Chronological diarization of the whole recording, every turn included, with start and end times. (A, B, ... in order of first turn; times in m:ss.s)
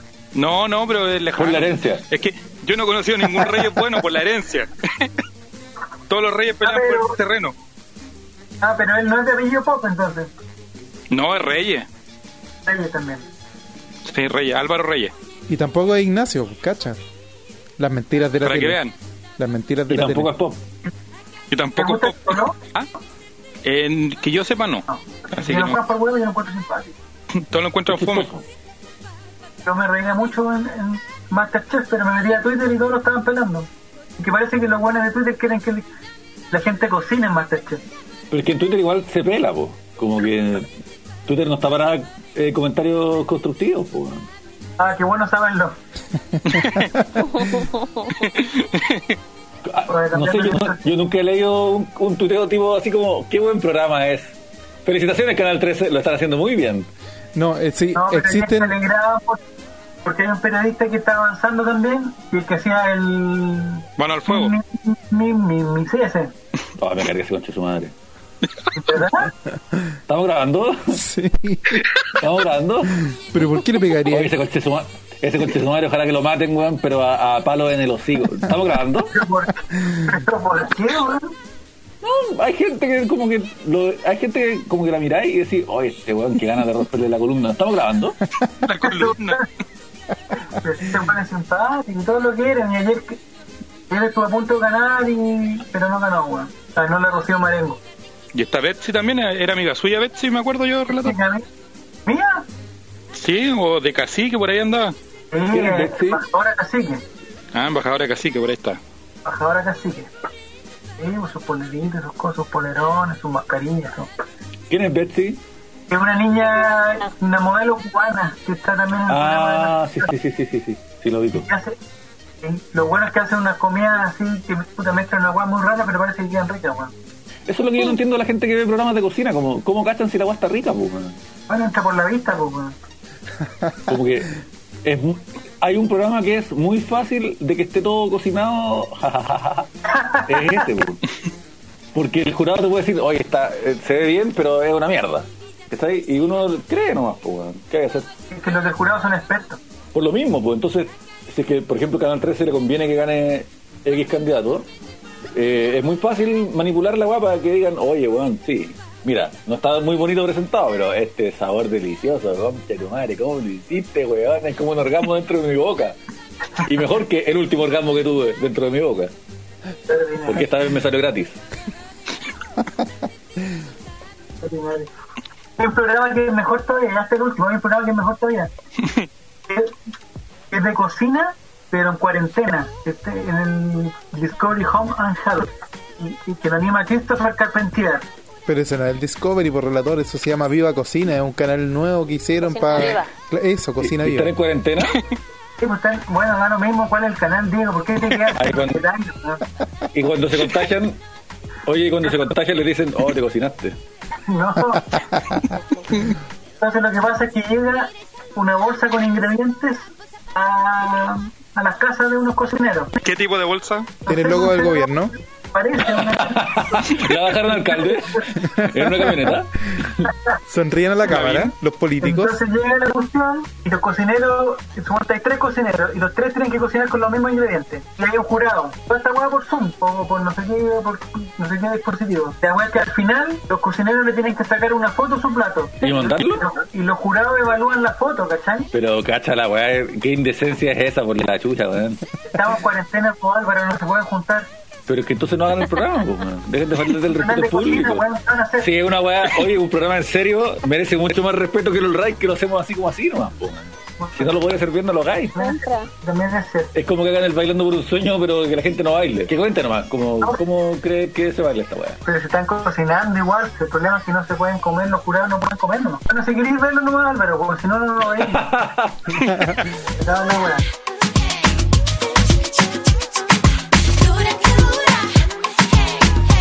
0:00.3-0:05.1 A
0:01.3-0:02.0 B
0:06.1-0:07.5 A
0:06.6-0:07.2 C
0:08.6-0:10.3 C
0:11.1-0:11.9 A
0:12.6-0:13.2 C
0:14.0-0:15.1 A
0:15.5-0:17.0 D
0:17.8-0:18.8 D
0:18.4-0:18.9 A
0:19.4-0:20.3 D
0:19.9-0:20.6 B
0:21.5-0:22.9 A
0:21.8-0:22.6 C
0:23.6-0:25.8 A
0:24.9-0:27.0 C
0:27.3-0:28.3 A
0:27.9-0:28.4 B
0:29.6-0:35.8 C
0:36.5-0:37.8 C
0:38.3-0:40.7 B
0:41.2-0:44.3 B
0:44.8-0:45.8 C
0:46.3-0:47.2 D
0:47.2-0:48.1 E
0:48.1-0:49.0 A
0:49.6-0:56.9 B
0:49.9-0:50.8 C
0:57.3-0:58.8 D
0:57.9-0:59.4 C
1:00.0-1:06.3 C
1:04.0-1:04.5 A
1:06.8-1:07.9 B
1:08.7-1:09.3 C
1:09.5-1:09.9 D
1:10.1-1:11.0 B
1:10.9-1:11.9 D
1:12.2-1:13.0 B
1:12.9-1:14.3 D
1:14.1-1:19.1 B
1:19.1-1:21.3 C
1:22.0-1:28.2 B
1:28.6-1:29.4 A
1:28.8-1:29.4 C
1:30.5-1:33.2 C
1:33.9-1:37.8 C
1:38.3-1:41.2 A
1:41.0-1:41.4 C
1:42.0-1:42.5 C
1:43.1-1:44.9 A
1:45.3-1:47.0 C
1:45.5-1:46.2 B
1:47.5-1:48.8 A
1:49.2-1:50.1 C
1:51.0-1:54.1 C
1:54.7-1:55.4 B
1:55.9-2:00.1 C
1:59.1-2:01.5 B
2:01.4-2:01.8 C
2:02.4-2:06.9 C
2:07.5-2:11.2 B
2:11.5-2:12.7 C
2:13.6-2:13.9 D
2:13.9-2:19.7 B
2:20.0-2:20.6 C
2:20.2-2:21.0 B
2:21.9-2:28.1 B
2:28.3-2:29.6 C
2:29.9-2:34.7 B
2:35.3-2:46.0 B
2:46.6-2:49.1 B
2:49.9-2:50.5 C
2:50.2-2:51.4 B
2:54.4-2:54.9 C
2:55.6-2:58.5 C
2:59.5-2:59.7 C
3:00.5-3:08.1 C
3:08.5-3:14.3 D
3:12.4-3:13.1 E
3:13.8-3:15.0 B
3:15.6-3:19.4 C
3:18.3-3:18.8 B
3:19.9-3:21.0 B
3:21.6-3:23.8 B
3:24.3-3:24.9 C
3:25.0-3:25.4 D
3:25.6-3:25.8 E
3:26.6-3:32.9 C
3:33.0-3:34.0 A
3:34.0-3:35.0 C
3:34.0-3:35.1 D
3:35.5-3:38.4 C
3:36.0-3:40.1 B
3:40.5-3:42.4 D
3:41.1-3:41.5 A
3:42.0-3:58.7 C
3:55.8-3:56.4 B
3:58.7-4:02.0 B
4:02.2-4:04.5 C
4:04.9-4:08.0 B
4:07.1-4:08.7 C
4:08.6-4:15.3 B
4:14.0-4:14.4 C
4:15.3-4:15.9 E
4:15.3-4:16.7 C
4:16.7-4:22.0 B
4:22.0-4:28.4 C
4:28.3-4:29.1 B
4:29.2-4:29.6 D
4:30.0-4:30.6 C
4:34.3-4:34.9 E